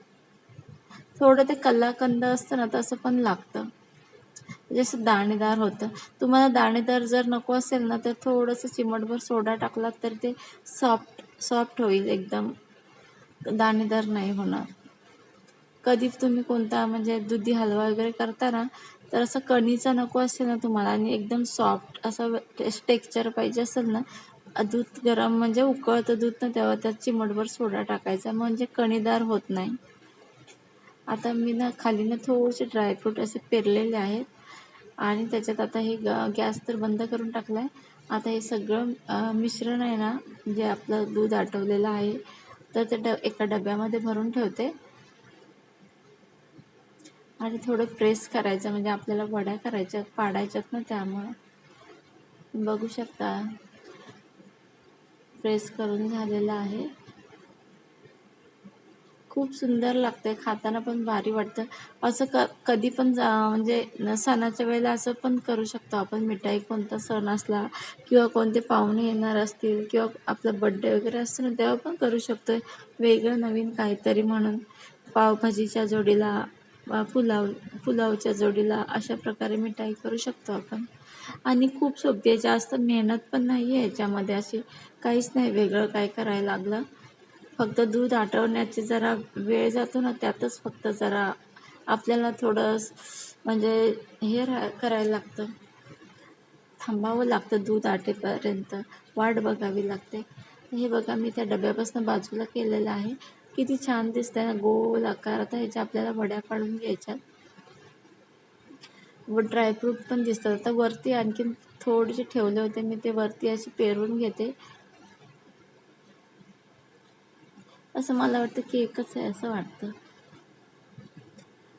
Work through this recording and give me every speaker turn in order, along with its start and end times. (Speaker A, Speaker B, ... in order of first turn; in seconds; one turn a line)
Speaker A: 1.2-3.7
Speaker A: 4.7-12.5
Speaker A: 13.5-14.7
Speaker A: 15.8-29.8
Speaker A: 31.1-34.3
Speaker A: 35.0-42.2
Speaker A: 42.7-44.7
Speaker A: 47.4-51.3
Speaker A: 52.5-53.5
Speaker A: 55.4-56.9
Speaker A: 59.3-80.9
Speaker A: 81.4-86.8
Speaker A: 87.6-91.4
Speaker A: 91.9-95.5
Speaker A: 96.8-107.2
Speaker A: 109.3-114.5
Speaker A: 117.9-119.9